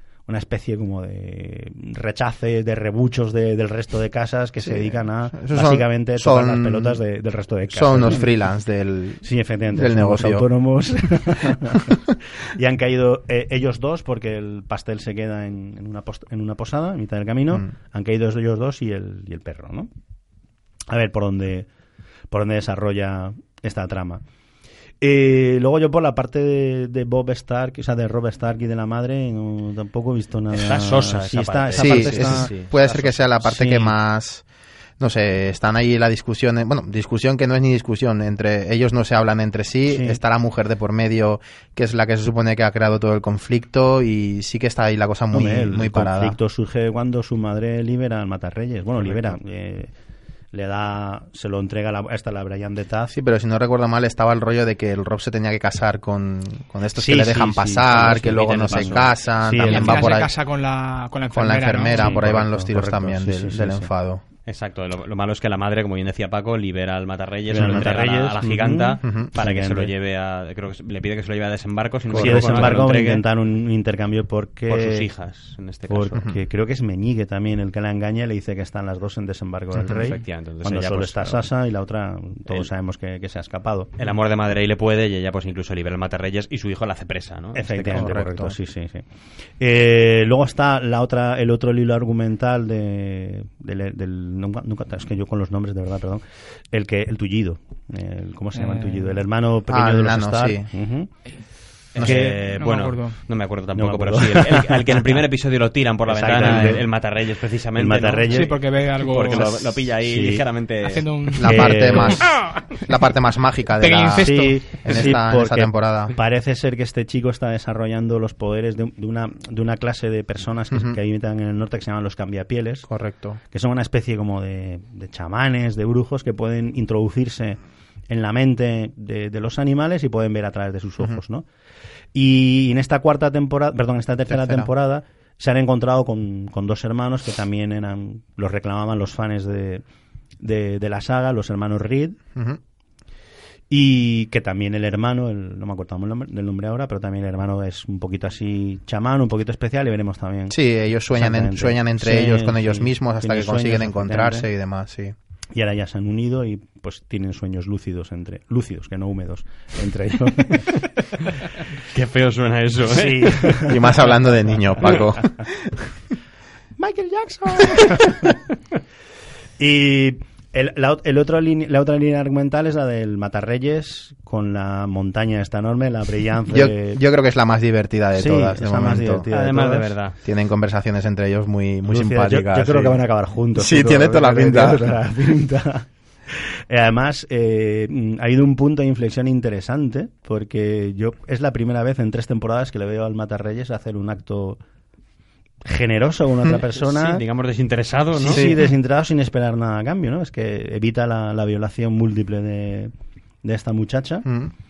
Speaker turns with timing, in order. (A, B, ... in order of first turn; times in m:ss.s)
0:00.3-0:08.3 A
0:04.6-0:07.0 B
0:07.7-0:10.5 B
0:09.2-0:12.0 A
0:12.5-0:19.9 A
0:20.9-0:21.7 A
0:22.3-0:24.2 A
0:25.0-0:32.5 A
0:30.5-0:33.1 C
0:31.7-0:34.4 B
0:33.4-0:33.9 A
0:35.0-0:46.4 B
0:39.9-0:40.2 A
0:45.3-0:49.9 A
0:49.0-0:49.3 B
0:50.5-0:53.1 A
0:53.1-1:00.3 B
0:56.9-1:00.2 A
0:57.9-0:59.1 C
0:59.6-1:02.2 D
1:01.3-1:04.2 B
1:01.9-1:03.9 A
1:04.5-1:13.2 C
1:07.5-1:09.9 A
1:07.6-1:07.8 B
1:09.0-1:09.3 B
1:12.1-1:15.1 A
1:12.1-1:12.9 B
1:14.7-1:16.2 C
1:15.9-1:23.9 A
1:19.8-1:21.5 C
1:19.8-1:20.1 B
1:24.0-1:28.2 C
1:27.5-1:29.0 A
1:27.9-1:28.6 B
1:29.6-1:41.1 A
1:38.5-1:39.2 D
1:39.7-1:40.7 B
1:41.9-1:51.0 C
1:42.0-1:42.3 B
1:42.0-1:42.4 A
1:42.5-1:43.2 D
1:43.7-1:45.3 A
1:46.1-1:46.9 A
1:47.8-1:48.6 A
1:48.3-1:49.4 D
1:49.2-1:50.4 A
1:50.8-1:51.9 D
1:51.4-1:56.2 B
1:51.4-1:52.2 A
1:53.8-1:54.6 D
1:54.1-2:02.9 A
2:00.7-2:01.0 B
2:02.9-2:03.4 B
2:03.5-2:11.4 A
2:12.1-2:19.8 A
2:14.3-2:14.7 B
2:20.4-2:22.2 A
2:23.7-2:30.6 A
2:30.5-2:35.1 B
2:31.1-2:34.5 A
2:35.5-2:40.8 A
2:41.2-2:43.9 C
2:42.9-2:44.1 A
2:43.6-2:45.7 B
2:46.8-2:48.3 A
2:49.6-2:57.0 A
2:56.5-2:59.2 B
2:58.1-2:59.9 A
2:59.3-3:00.2 C
3:00.2-3:03.0 B
3:01.8-3:14.6 A
3:03.5-3:04.9 B
3:15.6-3:17.2 A
3:16.7-3:18.5 C
3:18.2-3:22.9 A
3:18.3-3:18.7 B
3:23.4-3:24.2 A
3:24.2-3:24.5 B